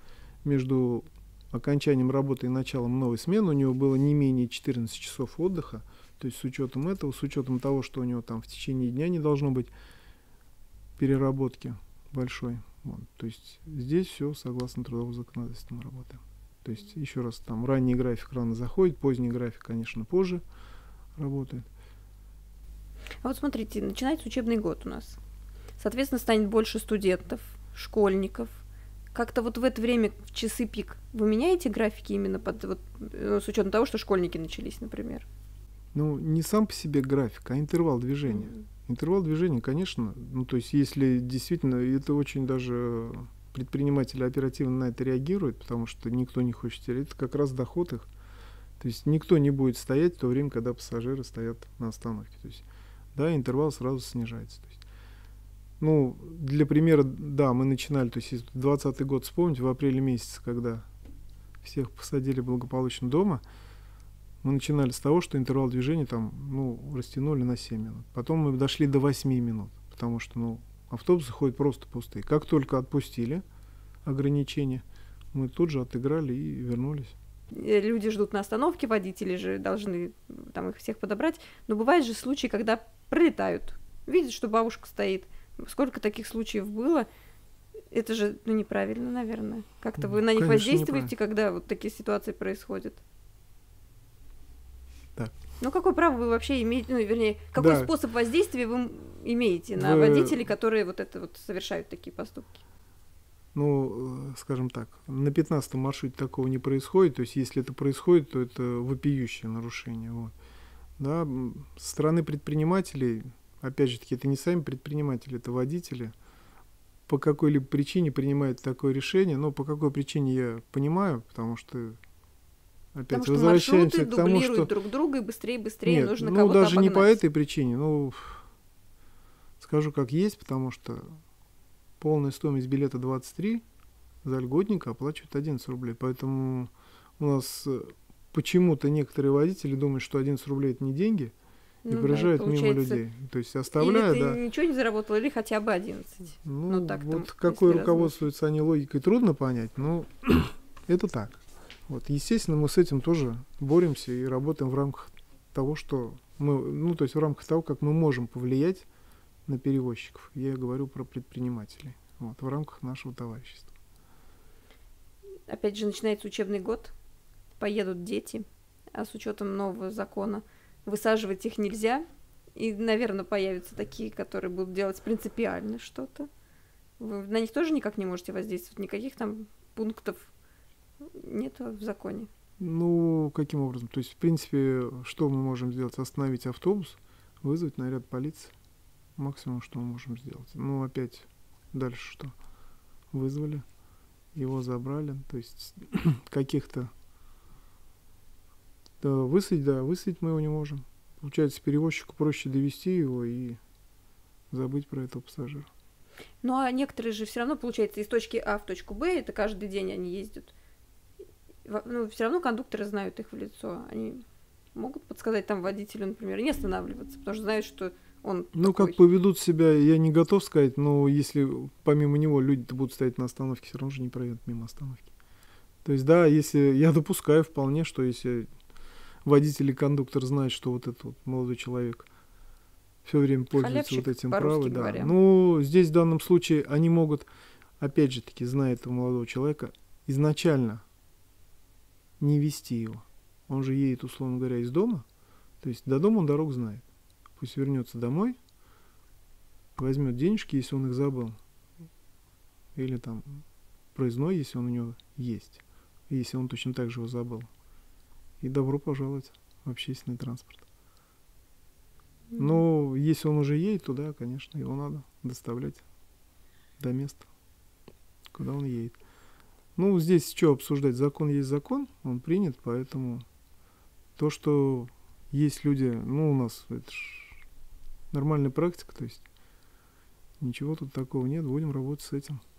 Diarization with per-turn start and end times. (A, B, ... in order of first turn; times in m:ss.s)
0:00.4-0:09.7 A
0:11.0-0:20.4 A
0:21.2-0:21.7 A
0:23.2-0:25.2 B
0:25.8-0:35.3 B
0:35.9-0:48.1 A
0:38.3-0:38.6 B
0:48.8-0:52.6 A
0:53.2-0:54.8 A
0:55.8-1:00.9 A
1:01.6-1:03.4 A
1:04.4-1:13.4 A
1:14.0-1:17.2 A
1:17.5-1:27.1 B
1:27.9-1:33.0 B
1:30.0-1:31.1 A
1:35.6-1:42.6 B
1:37.6-1:37.9 A
1:39.7-1:40.5 A
1:43.5-1:50.3 A
1:51.0-1:56.1 A
1:57.1-2:02.0 A
2:02.9-2:04.7 A
2:03.1-2:07.2 B
2:05.8-2:08.5 A
2:09.6-2:11.2 A
2:12.0-2:13.6 A
2:14.2-2:21.3 A
2:21.8-2:23.0 B
2:21.9-2:24.4 A
2:23.8-2:28.3 B
2:26.4-2:38.9 A
2:39.5-2:43.7 A
2:45.5-2:46.9 B
2:47.6-2:56.3 B
2:57.0-3:00.3 B
3:01.1-3:02.3 B
3:02.6-3:08.5 A
3:09.2-3:12.3 A
3:13.1-3:13.6 A
3:14.3-3:16.9 A
3:19.0-3:23.6 A
3:24.5-3:25.7 A
3:26.4-3:30.5 B
3:31.7-3:34.2 B
3:34.8-3:39.0 B
3:38.5-3:45.1 A
3:45.8-3:48.5 A
3:49.2-3:52.1 A
3:53.0-3:57.3 A
3:53.6-3:55.2 B
3:57.8-4:00.8 A
4:02.2-4:05.1 A
4:05.6-4:06.8 A
4:07.4-4:08.4 A
4:09.8-4:11.4 A
4:12.8-4:17.5 A
4:18.4-4:20.6 A
4:22.4-4:25.8 A
4:26.8-4:27.3 A
4:28.3-4:29.0 A
4:29.8-4:33.2 A
4:34.2-4:37.4 A
4:38.1-4:39.2 A
4:40.4-4:42.4 A